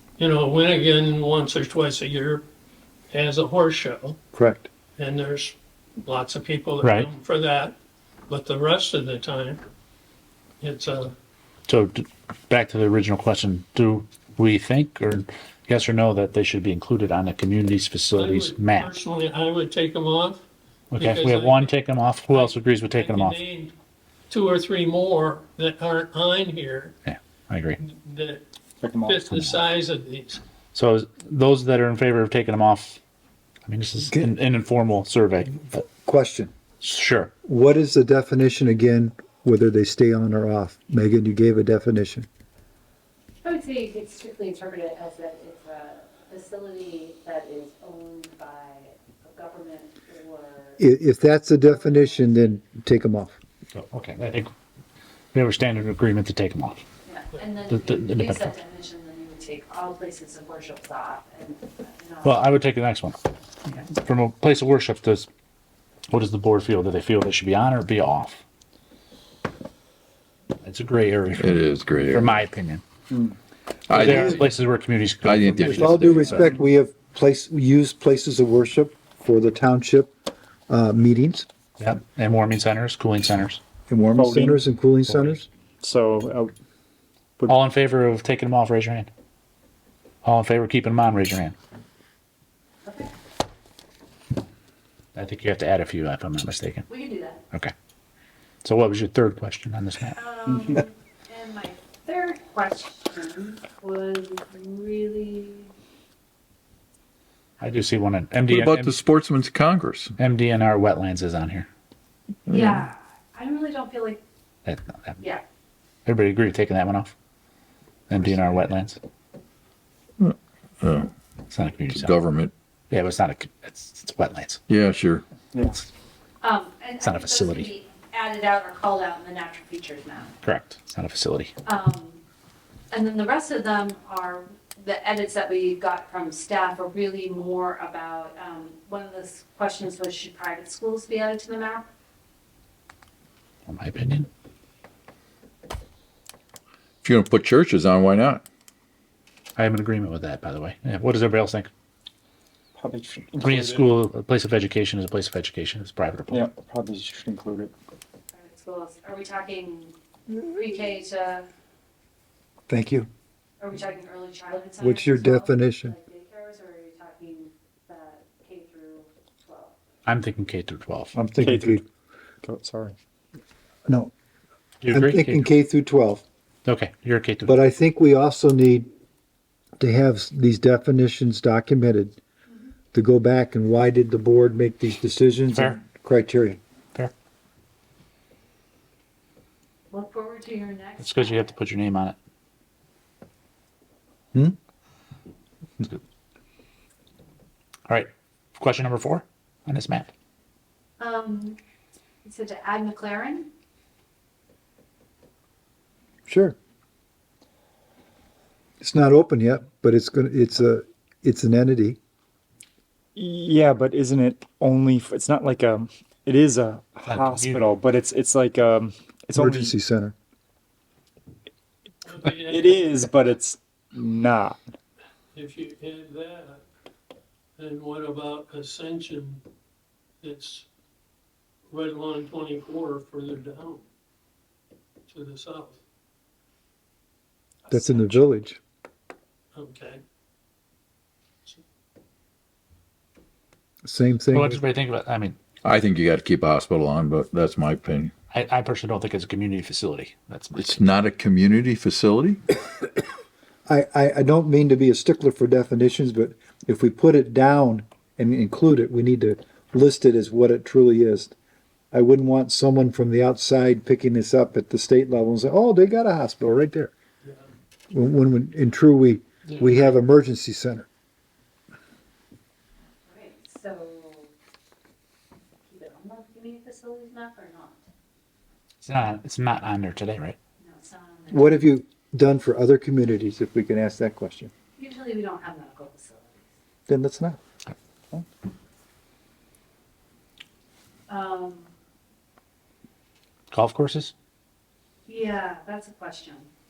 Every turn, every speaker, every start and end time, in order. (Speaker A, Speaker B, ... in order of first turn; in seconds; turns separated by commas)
Speaker A: 0.2-2.4, Speaker A: 3.1-4.2, Speaker B: 4.3-4.7, Speaker A: 5.0-7.8, Speaker C: 6.8-7.1, Speaker A: 8.3-9.6, Speaker A: 10.6-11.1, Speaker C: 11.7-18.9, Speaker A: 18.1-20.4, Speaker C: 20.9-23.4, Speaker A: 20.9-21.8, Speaker A: 22.3-23.7, Speaker A: 24.3-26.9, Speaker C: 27.0-27.8, Speaker A: 27.8-28.4, Speaker D: 28.8-29.3, Speaker A: 29.0-30.4, Speaker C: 29.3-29.6, Speaker C: 30.7-33.0, Speaker C: 33.6-35.8, Speaker B: 35.8-36.5, Speaker C: 36.8-37.3, Speaker B: 37.4-42.3, Speaker E: 43.4-50.8, Speaker B: 50.8-53.4, Speaker E: 51.6-52.6, Speaker C: 53.7-54.5, Speaker C: 55.3-56.8, Speaker E: 57.0-62.5, Speaker C: 57.7-58.5, Speaker C: 62.2-63.2, Speaker C: 63.9-65.3, Speaker C: 66.1-68.4, Speaker C: 70.6-72.8, Speaker F: 71.3-72.3, Speaker F: 73.9-74.4, Speaker C: 73.9-76.5, Speaker B: 74.0-74.3, Speaker F: 75.2-76.2, Speaker B: 75.6-80.1, Speaker B: 80.7-81.5, Speaker C: 81.8-83.6, Speaker B: 83.9-85.5, Speaker D: 84.1-84.6, Speaker C: 85.1-85.4, Speaker D: 85.8-86.5, Speaker C: 87.5-89.1, Speaker C: 90.2-91.5, Speaker E: 92.8-93.1, Speaker C: 95.1-96.9, Speaker E: 96.9-97.4, Speaker C: 98.6-100.2, Speaker E: 100.1-105.7, Speaker C: 107.6-108.9, Speaker F: 108.5-110.1, Speaker C: 110.2-111.7, Speaker F: 112.5-112.8, Speaker E: 112.5-114.2, Speaker C: 114.6-115.2, Speaker C: 116.0-117.1, Speaker C: 118.1-119.0, Speaker F: 120.2-121.1, Speaker C: 121.5-122.1, Speaker F: 121.9-122.5, Speaker C: 122.9-124.6, Speaker F: 124.7-125.2, Speaker E: 126.4-130.3, Speaker C: 127.0-127.7, Speaker C: 130.4-131.5, Speaker E: 131.6-132.2, Speaker E: 132.9-141.9, Speaker C: 143.7-144.3, Speaker F: 147.0-148.4, Speaker C: 149.6-151.7, Speaker D: 152.8-153.9, Speaker C: 153.4-156.4, Speaker D: 156.3-157.7, Speaker E: 158.3-161.5, Speaker B: 162.7-163.1, Speaker E: 163.6-169.7, Speaker B: 164.8-165.9, Speaker C: 170.1-171.1, Speaker B: 171.1-171.8, Speaker D: 171.4-171.8, Speaker D: 172.4-172.9, Speaker C: 174.8-175.5, Speaker B: 174.9-176.2, Speaker C: 176.6-177.5, Speaker B: 177.4-178.9, Speaker B: 179.8-182.2, Speaker B: 182.9-186.6, Speaker C: 185.5-185.8, Speaker E: 189.9-191.4, Speaker C: 191.0-192.2, Speaker C: 197.9-200.1, Speaker E: 201.0-201.6, Speaker E: 202.2-203.5, Speaker B: 206.3-206.6, Speaker B: 208.8-212.0, Speaker D: 213.1-219.7, Speaker C: 217.1-217.7, Speaker B: 219.3-220.1, Speaker A: 222.0-223.1, Speaker D: 222.5-224.6, Speaker A: 225.3-226.6, Speaker A: 227.6-229.4, Speaker A: 230.2-230.7, Speaker A: 231.7-233.8, Speaker A: 235.1-235.8, Speaker A: 237.7-238.2, Speaker B: 237.7-238.6, Speaker A: 239.5-240.0, Speaker B: 243.8-244.6, Speaker C: 244.3-245.4, Speaker F: 245.6-248.1, Speaker C: 248.3-250.8, Speaker F: 250.6-252.4, Speaker B: 253.7-261.3, Speaker B: 261.9-266.9, Speaker B: 267.9-270.9, Speaker C: 269.5-269.7, Speaker E: 273.1-274.3, Speaker E: 275.7-277.8, Speaker C: 278.8-280.4, Speaker E: 280.6-281.7, Speaker B: 281.3-284.5, Speaker E: 284.8-286.4, Speaker B: 286.9-287.4, Speaker E: 291.1-291.7, Speaker C: 293.5-294.1, Speaker E: 295.1-296.5